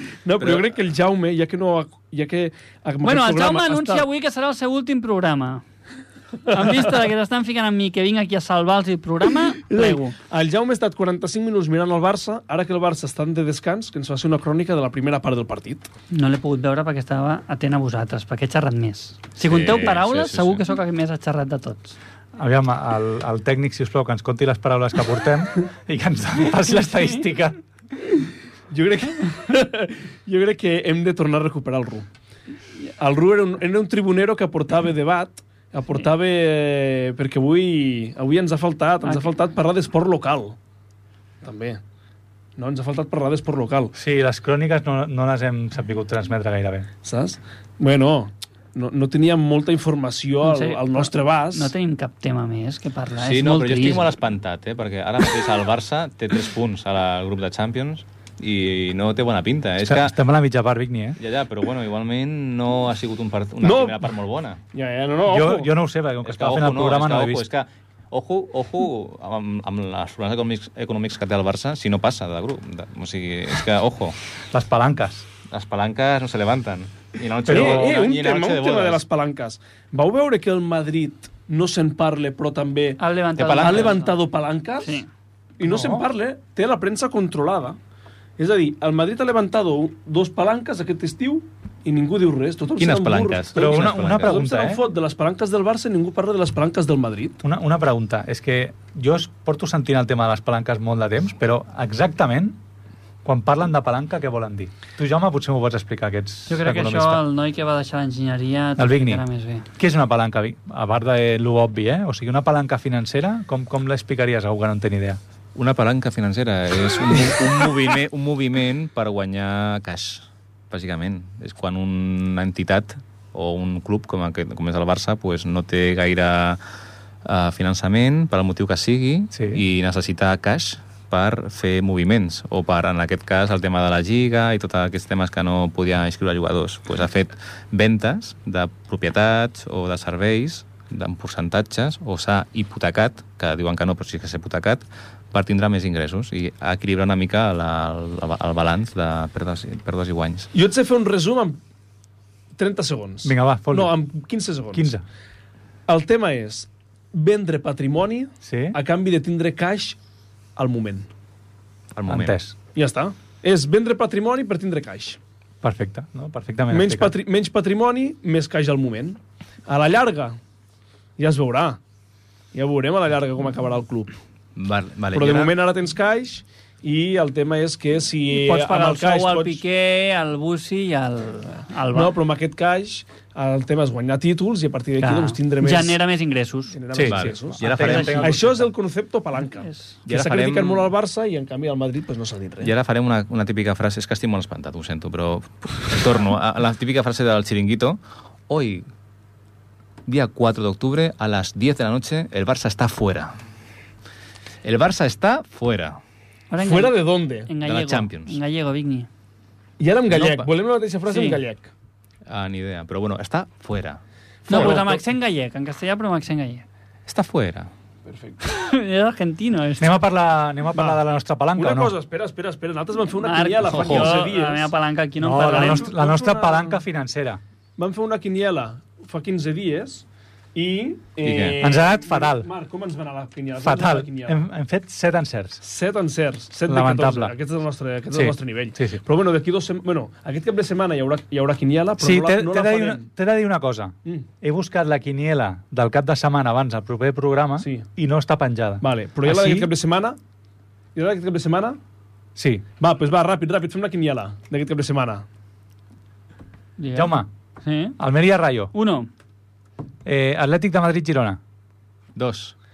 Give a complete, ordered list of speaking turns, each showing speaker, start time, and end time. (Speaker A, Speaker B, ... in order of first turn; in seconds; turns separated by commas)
Speaker A: 0.2-4.1, Speaker B: 0.4-0.8, Speaker C: 3.0-5.6, Speaker A: 6.5-6.8, Speaker C: 6.5-10.2, Speaker A: 9.3-15.9, Speaker C: 16.1-21.9, Speaker B: 19.4-20.6, Speaker D: 22.4-27.6, Speaker A: 28.7-32.1, Speaker A: 33.0-40.6, Speaker C: 39.1-39.3, Speaker A: 41.4-41.8, Speaker A: 42.6-44.0, Speaker D: 44.0-46.9, Speaker A: 47.0-51.7, Speaker C: 50.4-54.1, Speaker B: 53.2-60.2, Speaker D: 59.8-61.2, Speaker B: 61.2-64.6, Speaker A: 63.6-64.1, Speaker A: 64.7-65.7, Speaker D: 65.3-67.5, Speaker B: 66.2-74.2, Speaker D: 74.5-75.3, Speaker B: 75.5-79.0, Speaker A: 77.5-83.0, Speaker D: 77.5-77.9, Speaker C: 83.0-84.2, Speaker B: 83.4-84.0, Speaker A: 83.5-85.0, Speaker C: 84.8-85.1, Speaker A: 85.6-87.8, Speaker D: 85.6-86.0, Speaker A: 88.4-97.4, Speaker B: 92.8-94.4, Speaker D: 93.6-94.8, Speaker D: 97.4-102.6, Speaker D: 103.2-107.2, Speaker C: 106.5-109.7, Speaker D: 108.8-109.2, Speaker D: 109.8-115.2, Speaker B: 115.5-126.6, Speaker B: 127.2-150.5, Speaker D: 129.3-129.6, Speaker A: 150.5-151.6, Speaker A: 152.6-154.9, Speaker D: 153.2-154.0, Speaker D: 154.7-155.0, Speaker A: 155.9-160.0, Speaker D: 158.4-158.8, Speaker A: 160.6-161.1, Speaker B: 161.9-162.4, Speaker D: 162.1-162.6, Speaker A: 162.8-165.2, Speaker D: 165.6-167.1, Speaker A: 166.7-170.4, Speaker A: 171.2-171.8, Speaker A: 172.5-174.1, Speaker B: 174.6-175.5, Speaker A: 175.1-179.6, Speaker C: 178.3-182.2, Speaker A: 181.9-186.0, Speaker C: 185.0-186.8, Speaker A: 186.7-192.7, Speaker D: 186.9-188.7, Speaker B: 187.1-188.6, Speaker C: 187.8-188.2, Speaker C: 189.6-190.0, Speaker B: 190.1-190.9, Speaker B: 192.6-198.9, Speaker B: 200.1-203.3, Speaker B: 204.6-206.0, Speaker C: 206.5-209.1, Speaker A: 206.6-207.5, Speaker B: 207.6-208.4, Speaker A: 209.8-211.7, Speaker B: 210.1-210.5, Speaker C: 211.1-211.4, Speaker B: 212.3-214.8, Speaker A: 214.5-215.0, Speaker C: 214.5-216.7, Speaker B: 217.1-217.7, Speaker A: 218.1-218.4, Speaker C: 218.4-219.9, Speaker D: 219.8-221.9, Speaker A: 220.7-221.0, Speaker A: 221.6-224.7, Speaker C: 223.2-225.9, Speaker B: 223.7-224.2, Speaker D: 225.2-227.4, Speaker A: 225.4-226.8, Speaker A: 227.8-234.4, Speaker B: 231.2-231.6, Speaker D: 231.6-232.5, Speaker D: 233.6-235.6, Speaker A: 235.6-243.1, Speaker D: 236.7-237.3, Speaker D: 238.1-239.0, Speaker D: 242.0-249.7, Speaker A: 247.6-247.9, Speaker A: 248.8-250.2, Speaker A: 250.9-251.8, Speaker D: 252.4-252.7, Speaker A: 252.8-255.2, Speaker C: 256.8-258.0, Speaker D: 256.9-257.3, Speaker D: 258.0-258.7, Speaker C: 258.7-259.1, Speaker D: 260.1-261.4, Speaker B: 262.2-262.6